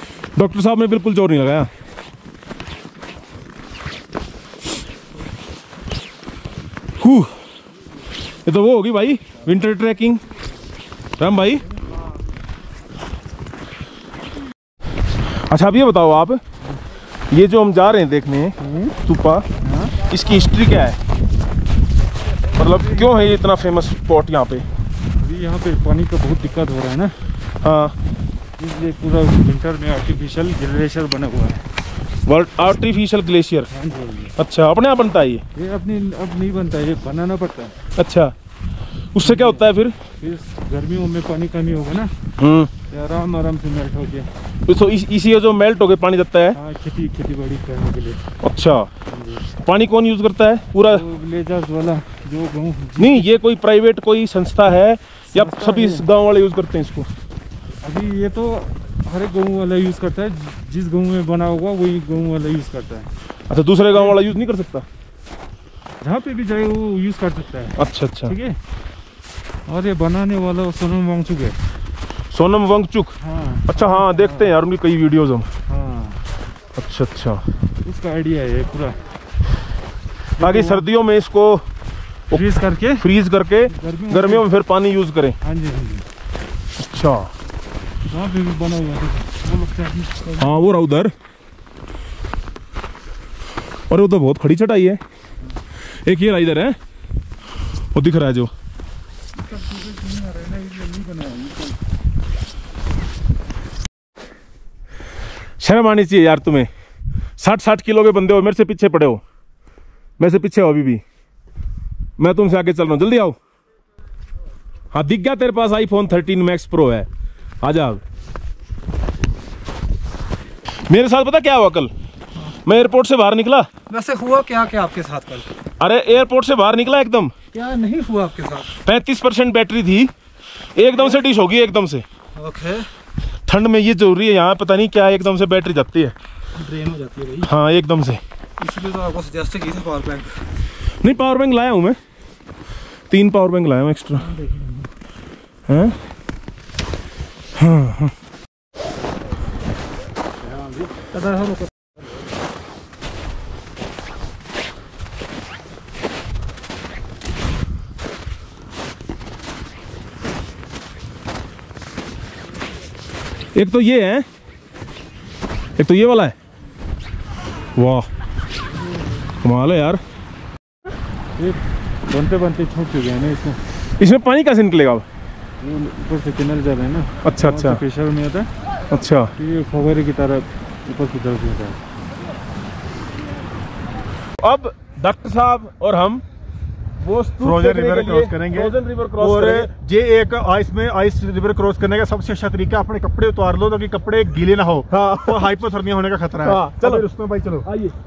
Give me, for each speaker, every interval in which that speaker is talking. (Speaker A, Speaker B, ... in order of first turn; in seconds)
Speaker A: 0.3-1.7, 7.0-7.3, 8.4-10.2, 11.2-11.6, 15.5-16.4, 17.3-19.4, 20.1-21.0, 22.6-24.6, 27.6-27.9, 32.2-33.7, 34.4-35.4, 38.0-38.3, 39.1-39.9, 42.4-42.7, 44.7-46.6, 48.4-48.9, 49.6-51.0, 53.0-57.1, 63.5-64.8, 67.8-68.3, 72.3-73.1, 73.7-75.5, 76.8-77.4, 80.4-81.6, 83.0-85.3, 86.8-87.3, 90.3-91.1, 93.9-95.0, 96.0-96.8, 97.9-98.5, 105.6-106.7, 107.4-109.2, 110.2-111.0, 112.2-113.3, 114.9-117.1, 117.6-118.0, 120.9-121.9, 122.6-123.7, 125.8-127.3, 128.8-130.1, 130.7-132.0, 133.5-136.1, 137.4-138.2, 141.0-142.0, 143.1-144.4, 145.7-145.9, 147.6-148.1, 163.5-164.2, 165.8-166.3, 167.7-168.1, 169.4-170.0, 174.0-175.0, 177.2-177.8, 178.9-179.3, 184.4-186.2, 187.0-189.7, 194.9-195.5, 196.4-197.0, 197.6-197.9
Speaker B: 18.6-18.9, 19.6-20.0, 22.8-23.1, 25.2-27.2, 28.6-31.6, 33.7-34.3, 35.5-37.7, 39.2-42.1, 42.9-44.3, 46.5-48.2, 49.1-49.4, 50.9-53.3, 55.3-56.1, 57.8-63.1, 63.9-64.2, 66.0-68.6, 69.7-71.6, 73.2-74.5, 75.7-76.2, 77.8-79.0, 80.4-80.8, 82.3-83.0, 83.7-84.5, 85.4-86.0, 88.1-90.5, 100.2-100.8, 171.4-173.6, 175.6-178.5, 179.4-181.8
Speaker C: 100.8-101.3, 123.9-125.5, 127.5-128.7, 132.3-132.9, 136.6-137.5, 138.6-140.4, 144.4-144.8, 150.8-151.7
Speaker D: 187.4-197.7